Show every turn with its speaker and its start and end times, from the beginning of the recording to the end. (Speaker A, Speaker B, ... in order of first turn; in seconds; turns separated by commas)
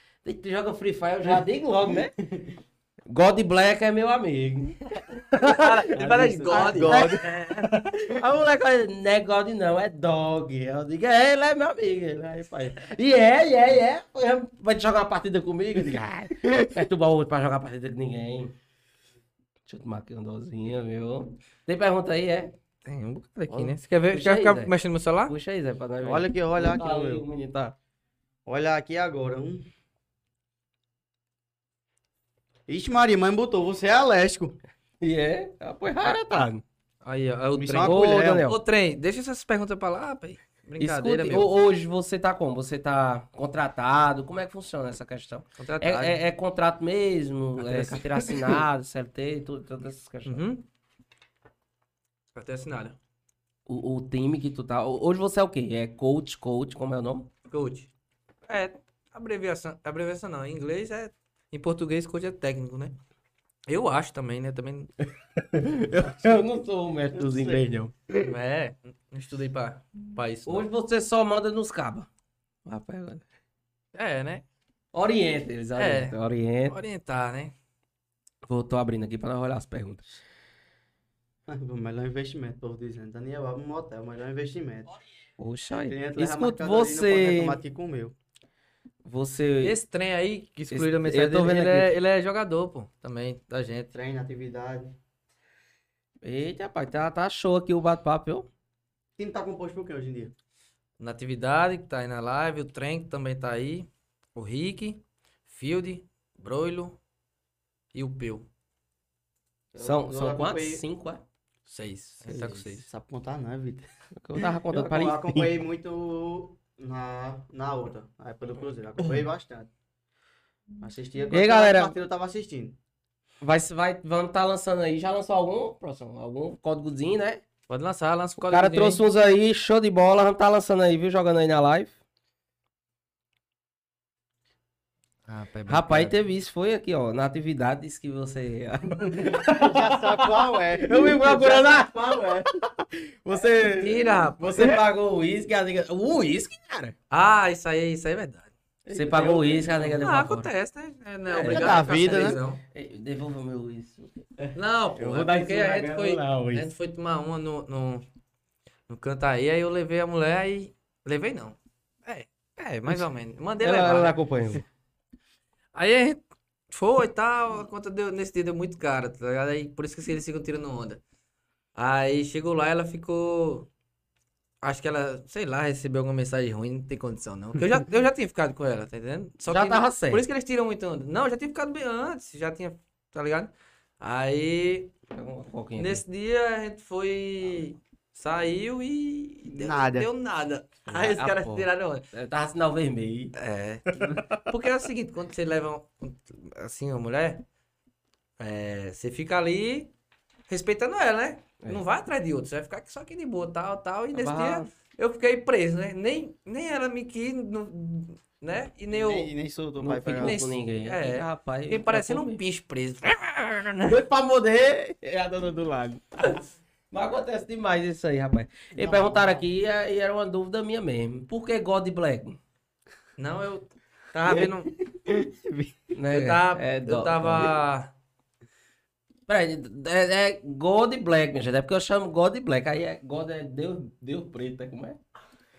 Speaker A: 0.2-2.1, Speaker A: 3.1-18.5, Speaker B: 5.4-7.7, Speaker C: 5.9-7.2, Speaker A: 19.6-22.5, Speaker B: 22.8-25.3, Speaker A: 23.5-24.7, Speaker A: 25.3-27.7, Speaker C: 26.0-27.2, Speaker C: 28.4-29.7, Speaker C: 32.7-34.6, Speaker A: 35.0-36.6, Speaker B: 37.0-41.5, Speaker C: 37.5-38.5, Speaker A: 37.8-38.6, Speaker A: 40.8-50.4, Speaker B: 45.6-46.2, Speaker B: 47.6-48.3, Speaker B: 50.2-50.6, Speaker B: 52.3-53.0, Speaker A: 53.7-57.3, Speaker B: 57.5-57.9, Speaker B: 58.5-63.0, Speaker B: 63.7-64.9, Speaker A: 65.4-67.9, Speaker C: 67.1-67.6, Speaker B: 68.2-70.7, Speaker A: 70.5-72.1, Speaker A: 72.7-73.2, Speaker B: 73.9-74.4, Speaker A: 74.9-76.8, Speaker B: 75.8-76.2, Speaker B: 76.7-77.5, Speaker A: 78.5-80.2, Speaker C: 81.5-84.9, Speaker A: 85.4-87.6, Speaker C: 85.8-88.1, Speaker A: 89.0-89.7, Speaker B: 89.6-93.9, Speaker A: 90.7-91.9, Speaker C: 93.9-94.9, Speaker A: 96.2-98.5, Speaker C: 99.2-100.3, Speaker B: 101.0-107.0, Speaker B: 107.9-108.5, Speaker C: 109.7-110.8, Speaker A: 109.8-111.2, Speaker B: 111.7-112.8, Speaker C: 112.2-119.7, Speaker A: 114.2-115.5, Speaker C: 120.8-122.8, Speaker A: 121.3-121.9, Speaker A: 123.4-127.4, Speaker B: 127.7-129.0, Speaker A: 128.4-131.9, Speaker B: 135.3-136.1, Speaker A: 135.7-146.9, Speaker C: 139.1-142.5, Speaker B: 143.7-144.7, Speaker B: 147.1-148.5, Speaker A: 148.9-150.5, Speaker B: 149.2-152.6, Speaker A: 151.3-152.0, Speaker C: 151.4-152.4, Speaker A: 152.7-156.7, Speaker B: 154.5-158.0, Speaker B: 158.9-164.2, Speaker A: 163.6-164.6, Speaker B: 165.7-166.2, Speaker B: 166.7-171.0, Speaker B: 171.8-173.7, Speaker B: 174.6-184.9, Speaker A: 179.4-180.2, Speaker A: 185.1-186.0, Speaker B: 185.8-192.0, Speaker C: 189.5-190.1, Speaker A: 190.9-193.3, Speaker B: 193.3-197.4, Speaker B: 198.4-199.9, Speaker B: 200.5-209.3, Speaker A: 204.1-204.7, Speaker C: 208.9-210.4, Speaker A: 209.8-212.4, Speaker B: 210.2-214.0, Speaker A: 213.8-222.4, Speaker C: 218.8-219.4, Speaker B: 223.2-224.7, Speaker C: 224.3-225.8, Speaker A: 225.9-227.6, Speaker B: 226.1-227.9, Speaker A: 229.3-235.0